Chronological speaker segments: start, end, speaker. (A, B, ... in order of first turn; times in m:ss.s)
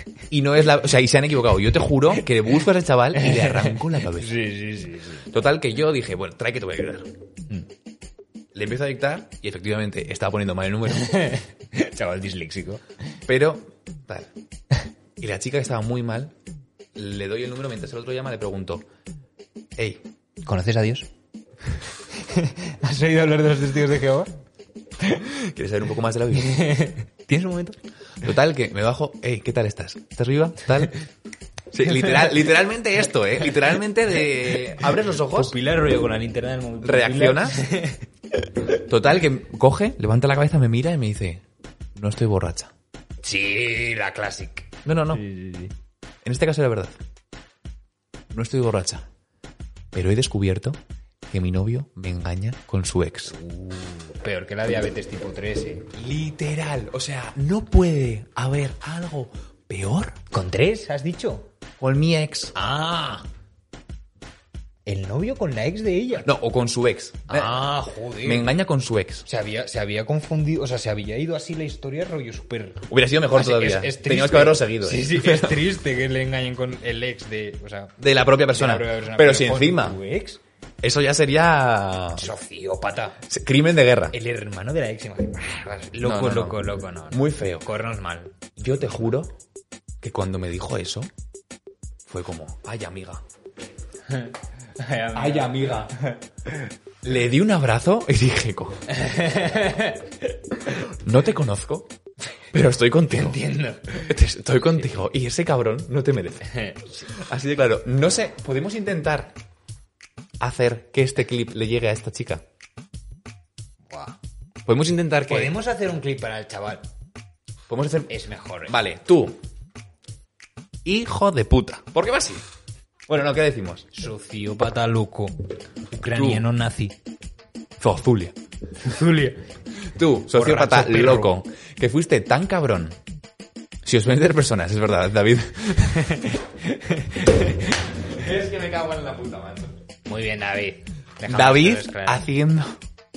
0:00.3-0:04.4 A
0:03.1-0:05.3 B
0:05.3-0:07.1 A
0:08.5-0:11.1 A
0:10.9-0:12.8 B
0:13.3-0:14.3 A
0:15.2-0:16.3 A
0:16.9-0:18.8 A
0:19.8-0:20.0 A
0:20.4-0:21.1 B
0:22.1-0:24.3 B
0:25.3-0:26.7 A
0:26.3-0:27.8 B
0:28.2-0:30.9 A
0:31.7-0:35.5 A
0:31.9-0:32.3 B
0:34.8-0:38.5 B
0:36.8-0:37.6 A
0:38.9-0:41.4 A
0:41.9-0:42.7 A
0:43.2-0:45.7 B
0:44.8-0:45.2 A
0:46.2-0:47.0 A
0:48.3-0:49.0 A
0:49.9-0:53.3 A
0:53.3-0:55.9 B
0:56.0-1:00.2 A
1:00.3-1:01.5 B
1:01.8-1:02.5 A
1:02.5-1:03.2 B
1:04.8-1:06.3 B
1:06.2-1:09.2 A
1:07.3-1:08.5 B
1:09.2-1:18.0 B
1:12.9-1:15.6 A
1:18.0-1:20.0 A
1:18.5-1:20.4 B
1:20.8-1:22.3 A
1:22.2-1:23.2 B
1:23.3-1:24.1 A
1:24.1-1:28.3 B
1:26.0-1:27.7 A
1:28.6-1:29.3 A
1:30.0-1:31.1 A
1:32.0-1:33.2 A
1:34.1-1:36.2 B
1:35.1-1:35.9 A
1:37.0-1:38.8 A
1:38.9-1:40.1 B
1:40.7-1:41.9 A
1:42.5-1:43.4 A
1:43.1-1:44.1 B
1:43.9-1:46.6 A
1:46.5-1:47.1 B
1:47.1-1:49.3 A
1:50.4-1:52.4 A
1:53.9-1:54.2 B
1:54.6-1:55.5 A
1:55.3-1:56.8 B
1:57.7-1:58.1 A
1:58.1-1:58.8 B
1:58.7-1:59.4 A
2:00.8-2:02.4 A
2:03.1-2:03.9 A
2:03.9-2:05.4 B
2:05.9-2:07.0 B
2:06.1-2:06.4 A
2:07.8-2:08.4 A
2:08.8-2:09.4 B
2:09.9-2:13.0 A
2:10.3-2:11.4 B
2:13.8-2:16.1 A
2:16.0-2:17.8 B
2:18.1-2:19.7 A
2:20.1-2:22.3 B
2:21.2-2:22.8 A